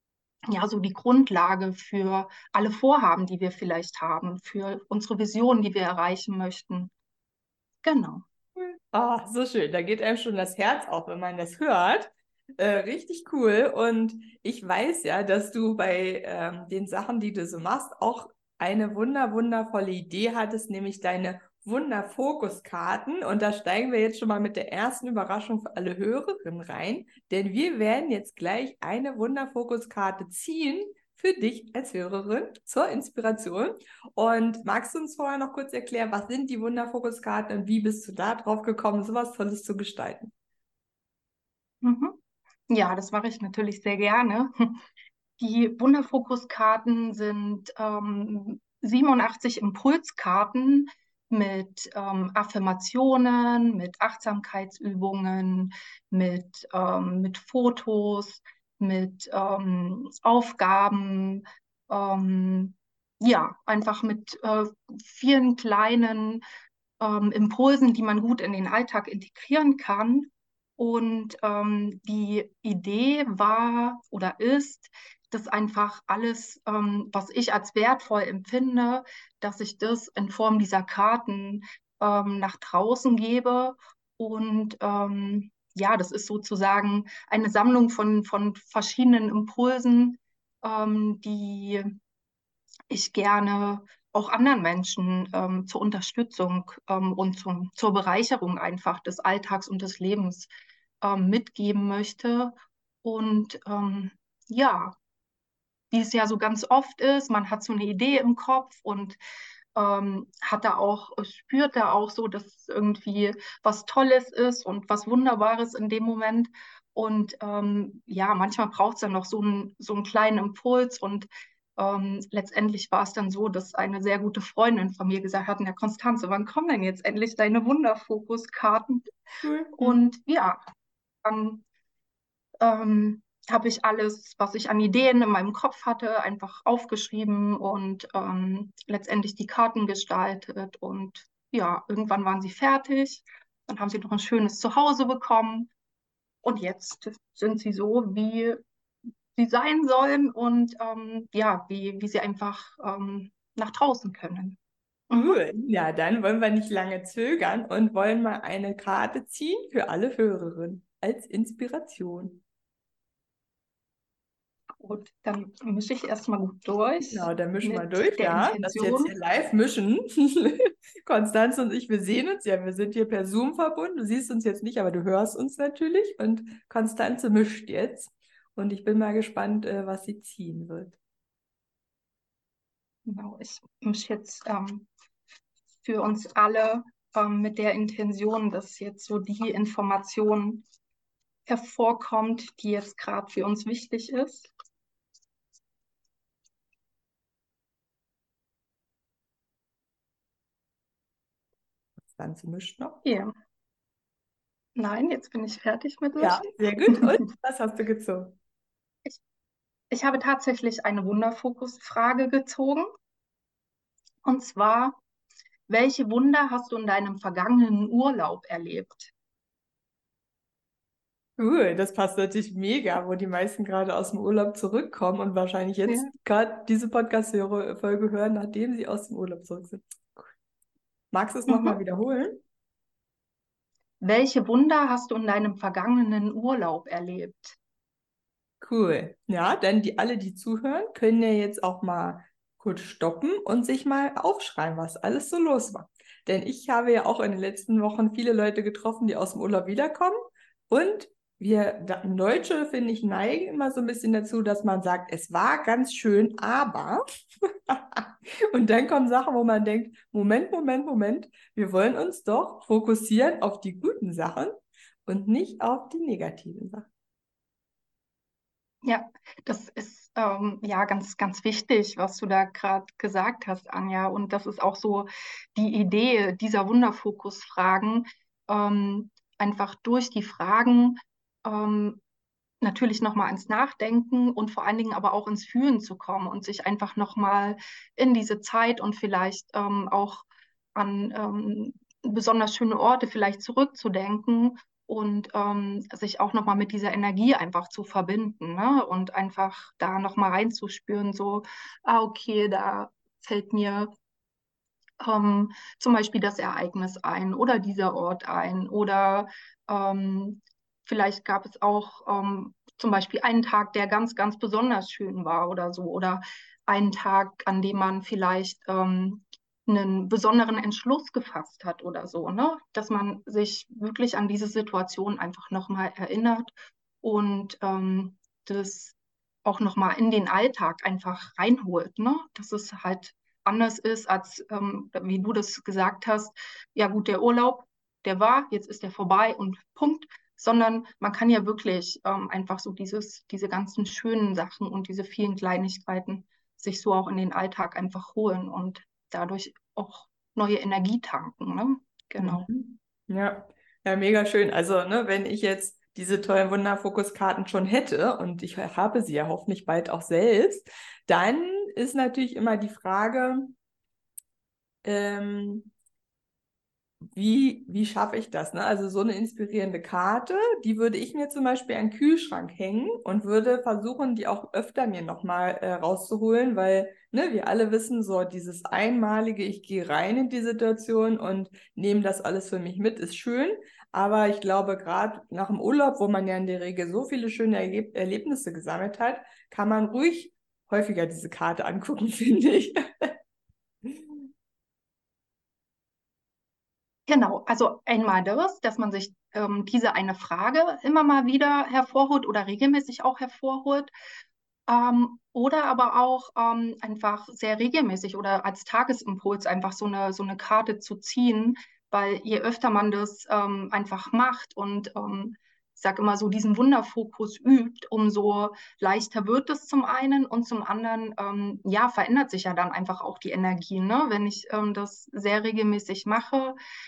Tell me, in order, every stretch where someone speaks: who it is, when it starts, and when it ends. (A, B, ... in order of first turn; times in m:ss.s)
0:00.5-0:06.9 A
0:07.8-0:08.2 A
0:08.6-0:40.3 B
0:41.8-0:42.2 A
0:42.7-0:44.8 A
0:45.4-1:06.4 A
1:07.0-1:31.9 A
1:32.9-1:40.5 A
1:41.0-1:42.5 A
1:43.0-1:45.0 A
1:45.9-1:49.2 A
1:49.8-2:09.1 A
2:09.4-2:10.0 B
2:09.8-2:10.6 A
2:11.2-2:11.6 A
2:12.6-2:25.7 A
2:26.4-2:28.6 A
2:29.4-2:34.6 A
2:35.1-2:35.4 A
2:35.1-2:42.4 B
2:44.8-2:49.1 A
2:47.0-3:01.0 B
3:03.1-3:04.9 A
3:05.8-3:10.6 A
3:11.5-3:14.5 A
3:22.1-3:23.0 B
3:23.0-3:23.3 A
3:24.8-3:27.1 A
3:26.2-3:28.4 B
3:29.9-3:32.9 A
3:34.2-3:35.0 A
3:35.7-3:39.1 A
3:41.4-3:50.3 B
3:51.1-3:52.4 B
3:51.5-3:51.8 A
3:54.0-3:57.6 A
3:58.6-4:10.2 B
4:10.7-4:24.6 B
4:25.1-4:26.9 B
4:28.8-4:42.0 A
4:42.6-5:03.9 A
5:05.0-5:26.5 A
5:27.0-5:52.5 A
5:52.2-6:03.6 B
6:04.8-6:05.7 B
6:07.1-6:33.2 B
6:33.8-6:34.3 B
6:37.1-6:43.9 A
6:44.7-7:06.6 A